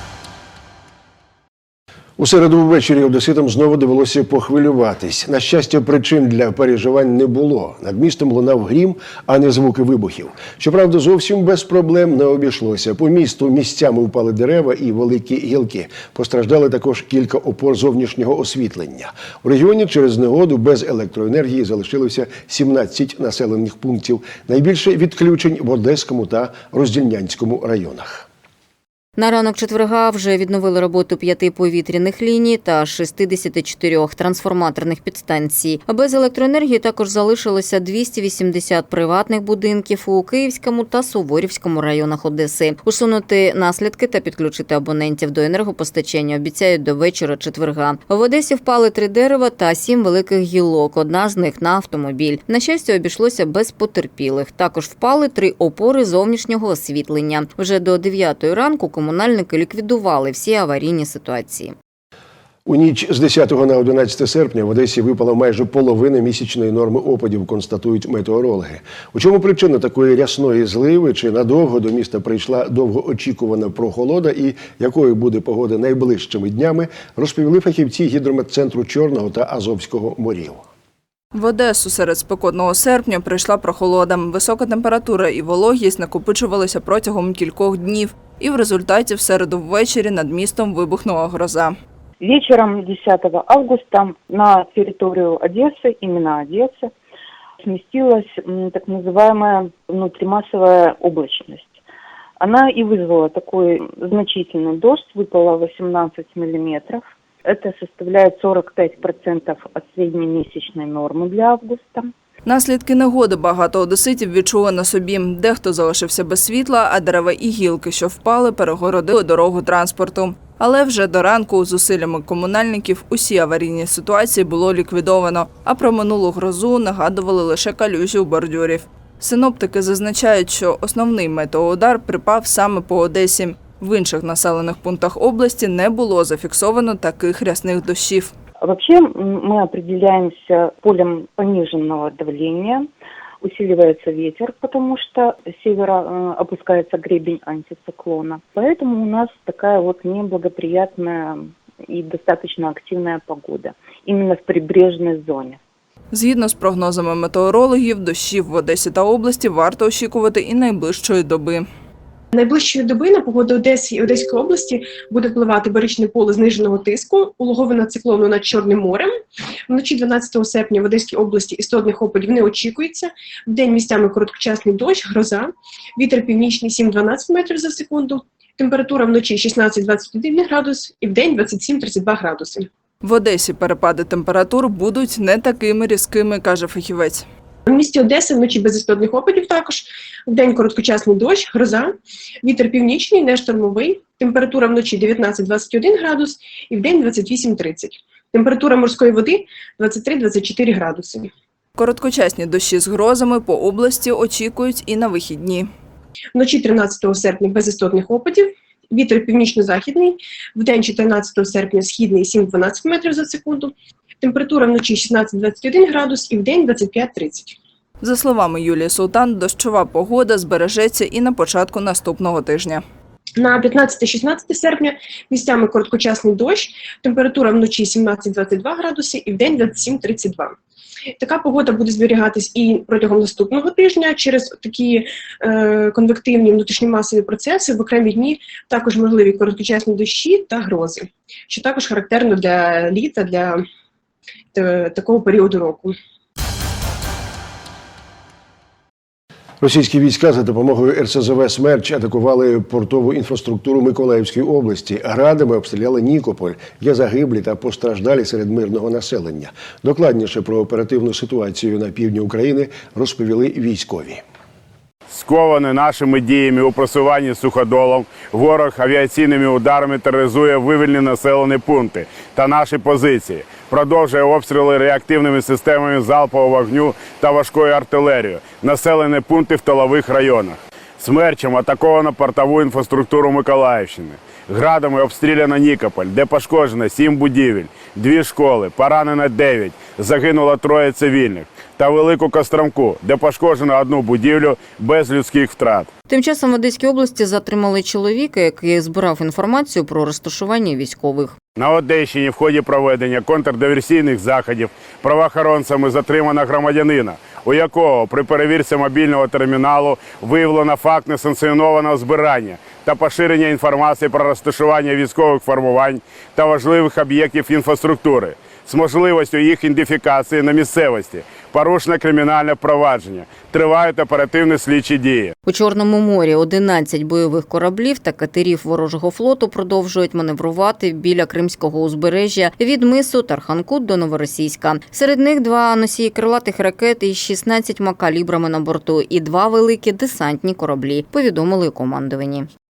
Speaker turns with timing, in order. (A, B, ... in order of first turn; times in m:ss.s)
0:02.2-0:28.3 A
0:29.2-1:01.8 B
1:02.7-1:20.6 A
1:21.3-1:31.8 C
1:32.2-1:36.9 D
1:37.6-1:41.7 D
1:42.4-1:52.1 D
1:52.4-2:18.3 C
2:18.6-2:22.9 D
2:23.4-2:35.6 D
2:36.1-2:41.7 C
2:42.3-2:49.1 E
2:49.7-3:02.7 E
3:03.0-3:07.2 C
3:07.7-3:21.3 E
3:21.8-3:25.7 C
3:26.4-3:37.6 E
3:38.0-3:42.8 C
3:43.4-3:50.6 E
3:51.2-4:03.6 E
4:04.5-4:06.0 E
4:09.6-4:24.2 A
4:25.1-4:55.9 F
4:56.1-5:01.4 B
5:01.6-5:25.3 F
5:25.5-5:42.5 B